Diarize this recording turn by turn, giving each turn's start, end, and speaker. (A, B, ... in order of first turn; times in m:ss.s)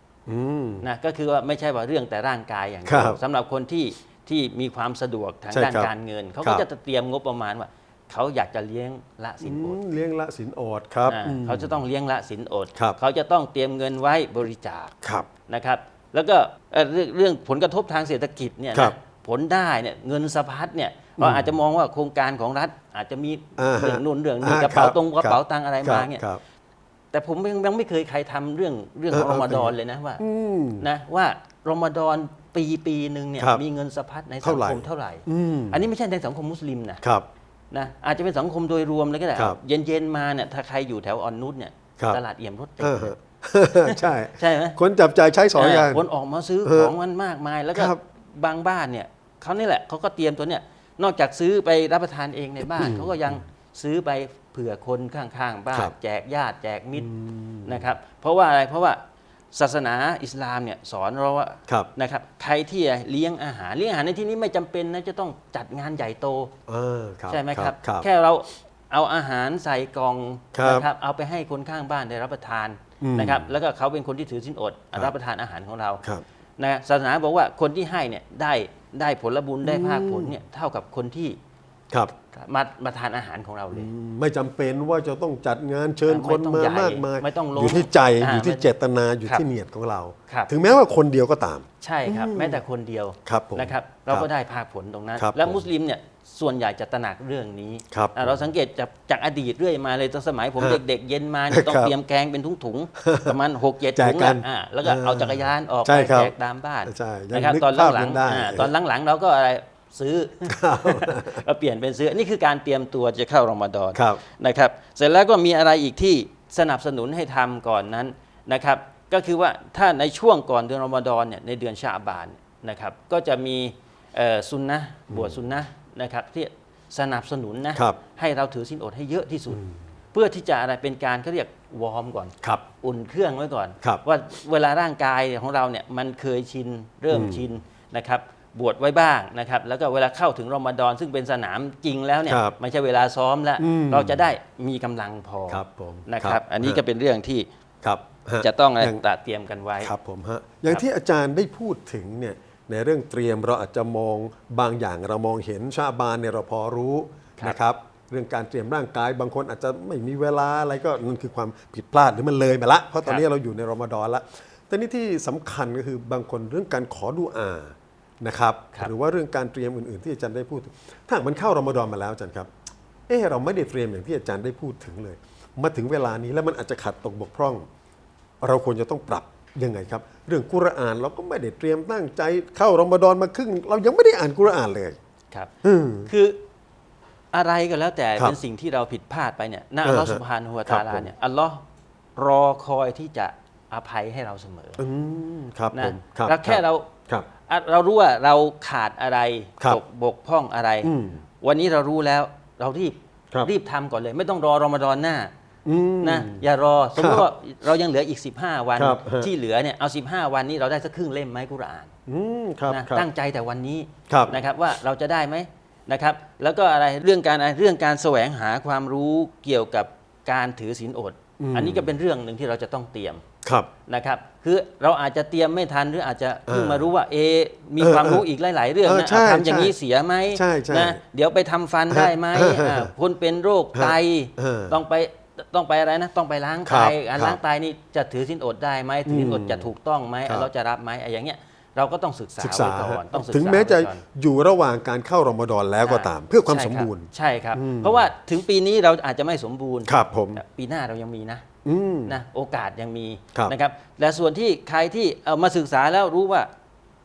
0:00.3-0:00.8 A
0:00.8-0:09.8 B
0:02.8-0:03.2 A
0:05.5-0:05.9 A
0:09.4-0:11.8 A
0:11.0-0:14.9 B
0:15.0-0:15.3 A
0:15.5-0:26.2 B
0:21.2-0:21.5 A
0:23.6-0:26.4 A
0:27.1-0:30.2 B
0:29.1-0:30.9 A
0:30.8-0:37.0 B
0:34.4-0:35.8 A
0:37.7-0:43.1 B
0:42.8-0:46.0 A
0:43.8-0:44.8 B
0:45.5-0:57.1 B
0:46.6-0:46.9 A
0:47.7-0:48.0 A
0:52.6-0:53.4 A
0:57.0-0:57.9 A
0:57.6-0:59.0 B
0:59.5-1:06.5 B
1:06.7-1:08.1 A
1:07.3-1:16.0 B
1:10.5-1:10.9 A
1:13.0-1:13.5 A
1:16.6-1:21.4 B
1:19.6-1:20.4 A
1:22.3-1:23.9 B
1:23.7-1:32.6 A
1:26.1-1:28.7 B
1:31.8-2:09.6 B
1:33.2-1:34.3 A
1:35.2-1:35.6 A
1:37.9-1:38.4 A
1:41.5-1:41.9 A
1:43.0-1:43.4 A
1:43.9-1:46.3 A
1:46.8-1:48.7 A
1:50.4-1:51.4 A
1:53.9-1:54.2 A
2:05.1-2:05.4 A
2:09.5-2:09.8 A
2:10.1-2:27.5 B
2:17.1-2:17.4 A
2:22.2-2:22.5 A
2:23.6-2:24.3 A
2:25.5-2:26.8 A
2:27.8-2:29.0 A
2:28.4-2:29.9 B
2:29.8-2:52.5 A
2:53.1-2:57.7 A
2:58.4-3:05.0 A
3:05.6-3:06.1 A
3:06.0-3:06.4 B
3:07.3-3:11.6 B
3:09.8-3:11.1 A
3:12.2-3:14.8 B
3:14.8-3:17.3 A
3:15.7-3:16.9 B
3:17.4-3:25.3 B
3:20.8-3:21.2 A
3:25.6-3:26.4 A
3:26.0-3:31.9 B
3:27.0-3:27.3 A
3:28.8-3:29.3 A
3:32.1-3:33.1 A
3:32.7-3:43.2 B
3:34.1-3:34.4 A
3:41.4-3:41.9 A
3:43.4-3:43.7 A
3:43.9-4:04.0 B
3:46.5-3:46.9 A
3:47.8-3:48.2 A
3:48.8-3:49.8 A
3:50.3-3:51.0 A
3:51.9-3:52.9 A
3:53.7-3:54.8 A
3:56.6-3:57.4 A
3:59.0-3:59.7 A
4:02.4-4:08.1 A
4:05.8-4:11.4 B
4:09.9-4:10.4 A
4:11.6-4:12.2 A
4:12.1-4:16.5 B